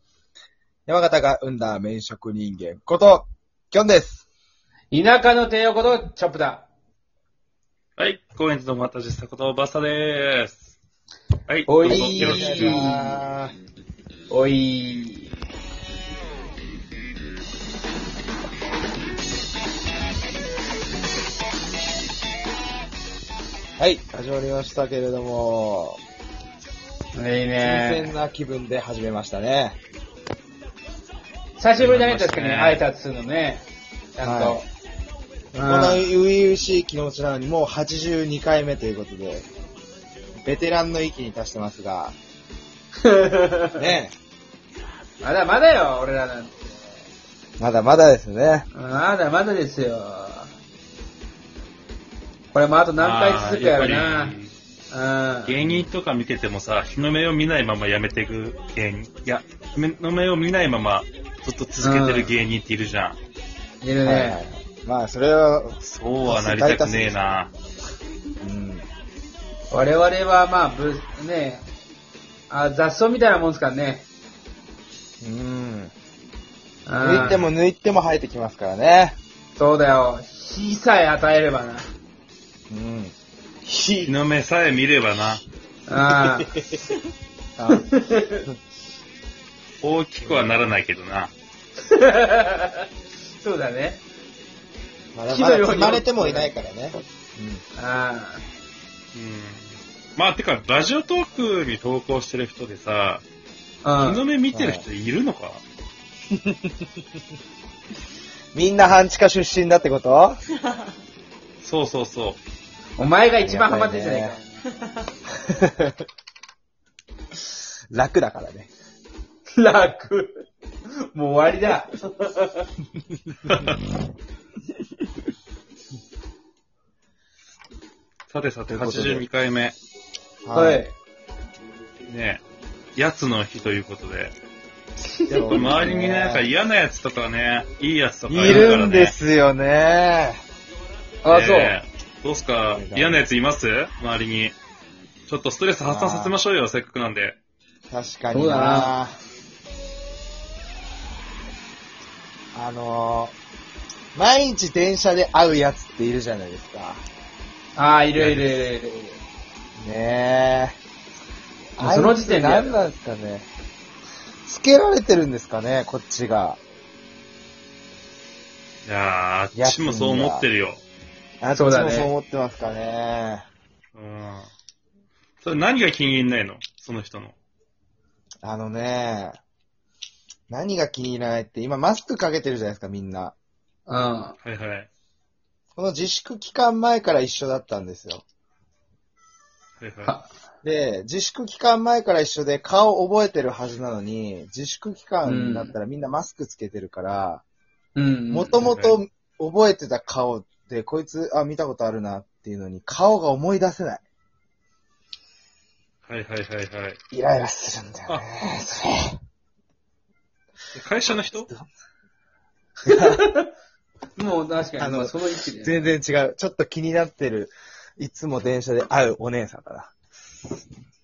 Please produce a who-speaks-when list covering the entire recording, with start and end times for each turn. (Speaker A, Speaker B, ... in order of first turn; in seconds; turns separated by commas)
Speaker A: 0.9-4.2, Speaker B: 4.9-6.7, Speaker C: 8.0-10.7, Speaker C: 11.5-12.8, Speaker B: 11.7-13.3, Speaker A: 11.9-13.5, Speaker B: 14.3-15.3, Speaker A: 23.8-26.0, Speaker B: 27.1-28.1, Speaker A: 27.6-29.8, Speaker B: 31.6-34.7, Speaker C: 31.8-32.8, Speaker A: 34.2-34.6, Speaker B: 35.5-36.1, Speaker A: 35.5-39.5, Speaker A: 40.4-42.1, Speaker B: 43.0-43.9, Speaker A: 43.8-44.1, Speaker B: 45.2-47.0, Speaker A: 47.6-48.7, Speaker B: 48.7-50.5, Speaker B: 52.5-54.4, Speaker C: 53.0-54.5, Speaker B: 54.9-55.5, Speaker C: 55.5-63.2, Speaker A: 55.6-55.9, Speaker B: 61.8-62.4, Speaker B: 63.8-64.4, Speaker A: 64.0-67.2, Speaker C: 65.8-67.5, Speaker A: 68.4-68.8, Speaker B: 69.7-71.7, Speaker B: 72.5-74.1, Speaker A: 75.2-75.9, Speaker B: 76.8-77.4, Speaker A: 77.0-79.2, Speaker C: 77.1-77.5, Speaker B: 79.5-81.9, Speaker A: 82.7-84.1, Speaker C: 84.0-85.4, Speaker B: 85.9-86.5, Speaker A: 86.1-86.8, Speaker A: 87.6-87.9, Speaker B: 87.7-88.4, Speaker C: 89.8-91.3, Speaker A: 90.2-90.5, Speaker B: 91.8-92.9, Speaker B: 93.4-94.0, Speaker A: 95.1-97.6, Speaker B: 95.3-96.5, Speaker B: 97.8-98.4, Speaker C: 99.1-103.2, Speaker B: 103.8-104.2, Speaker C: 104.0-105.6, Speaker A: 104.5-104.8, Speaker A: 108.5-110.4, Speaker C: 111.6-112.4, Speaker B: 113.0-114.6, Speaker A: 113.4-114.4, Speaker A: 115.4-116.0, Speaker A: 117.9-118.7, Speaker B: 119.5-120.4, Speaker B: 121.1-122.7, Speaker C: 123.5-123.8, Speaker C: 128.3-129.7, Speaker A: 128.7-129.2, Speaker A: 130.4-130.8, Speaker B: 130.5-130.9, Speaker C: 132.1-132.4, Speaker C: 132.9-134.3, Speaker B: 135.3-135.7, Speaker A: 135.3-136.4, Speaker C: 135.5-139.2, Speaker A: 138.3-140.4, Speaker B: 138.5-138.8, Speaker B: 141.2-141.8, Speaker C: 141.3-144.5, Speaker A: 142.7-143.2, Speaker C: 145.3-147.4, Speaker A: 145.9-146.3, Speaker A: 147.9-149.2, Speaker B: 148.3-148.9, Speaker A: 152.5-153.3, Speaker A: 154.1-157.0, Speaker B: 157.8-159.2, Speaker C: 158.2-158.6, Speaker A: 159.8-160.8, Speaker A: 161.8-163.5, Speaker B: 161.8-162.8, Speaker A: 164.4-166.6, Speaker C: 168.8-170.8, Speaker A: 169.5-170.5, Speaker A: 171.4-173.4, Speaker B: 171.5-172.1, Speaker C: 173.9-174.5, Speaker C: 175.4-177.3, Speaker A: 178.4-179.4, Speaker A: 180.5-183.3, Speaker B: 183.9-184.3, Speaker C: 184.4-184.9, Speaker A: 185.8-188.2, Speaker C: 189.8-190.1, Speaker A: 190.6-197.4, Speaker B: 195.2-195.7, Speaker B: 197.9-198.6, Speaker A: 198.3-204.0, Speaker C: 198.6-198.9, Speaker C: 206.1-207.0, Speaker A: 207.1-209.1, Speaker C: 210.7-211.5, Speaker A: 211.3-211.7, Speaker A: 212.8-213.2, Speaker B: 212.9-213.5, Speaker B: 214.2-215.9, Speaker A: 214.8-219.9